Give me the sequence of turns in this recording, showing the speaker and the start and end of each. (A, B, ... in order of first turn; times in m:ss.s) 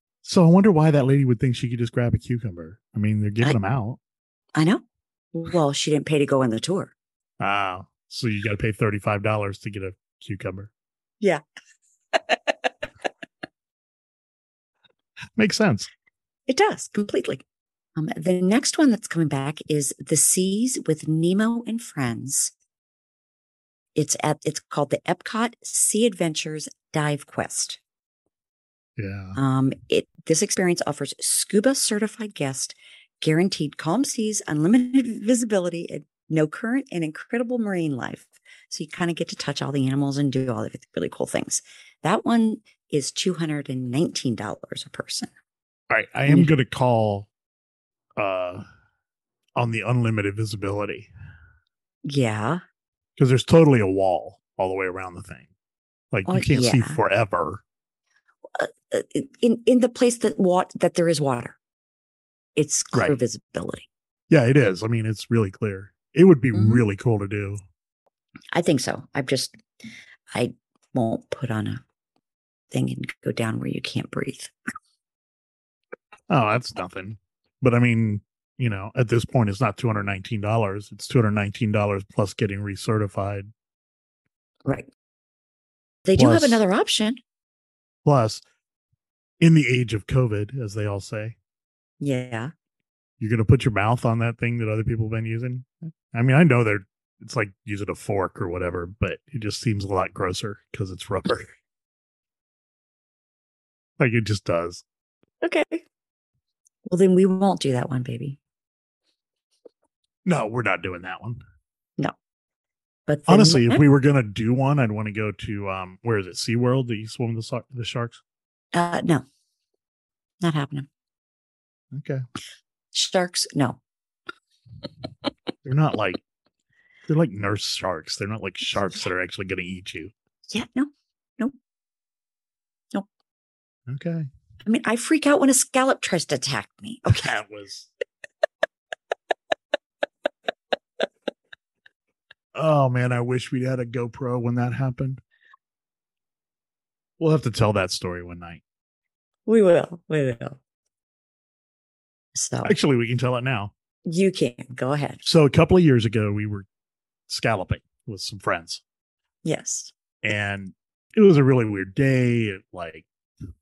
0:00.2-0:04.0 A
0:04.6-0:06.9 B
0:07.4-0:10.7 A
0:12.1-0:12.4 B
0:15.4-0:15.9 A
0:16.5-0:17.4 B
0:18.0-0:22.5 B
0:23.9-0:27.8 B
0:29.0-0:29.4 A
0:29.4-0:45.3 B
0:45.9-0:47.3 A
0:48.2-0:48.6 A
0:49.6-0:51.1 A
0:52.0-0:52.6 B
0:53.2-0:55.5 A
0:56.1-0:57.6 A
0:56.3-0:57.0 B
0:58.6-1:01.6 B
1:02.6-1:03.9 B
1:04.3-1:07.6 A
1:06.5-1:06.8 B
1:08.5-1:09.6 B
1:10.3-1:11.8 B
1:12.7-1:14.5 B
1:16.3-1:23.5 A
1:24.6-1:24.9 B
1:26.0-1:27.2 B
1:26.1-1:26.6 A
1:28.0-1:28.4 A
1:29.4-1:31.4 A
1:32.0-1:32.5 B
1:33.2-1:41.5 A
1:44.0-1:44.8 A
1:45.4-1:45.8 B
1:46.9-1:48.4 B
1:50.2-1:51.4 A
1:53.1-1:53.8 B
1:53.3-1:58.2 A
1:58.7-1:59.2 B
2:00.4-2:00.9 B
2:01.9-2:02.2 A
2:02.9-2:03.8 B
2:05.6-2:06.2 A
2:07.1-2:10.1 A
2:10.5-2:11.6 B
2:13.9-2:14.3 A
2:14.6-2:17.3 B
2:17.1-2:17.9 A
2:22.5-2:25.2 A
2:27.2-2:28.6 A
2:29.5-2:30.6 B
2:32.3-2:32.7 B
2:32.6-2:33.7 A
2:34.0-2:35.2 B
2:35.2-2:36.6 A
2:37.3-2:38.8 A
2:39.4-2:39.9 B
2:40.2-2:43.1 A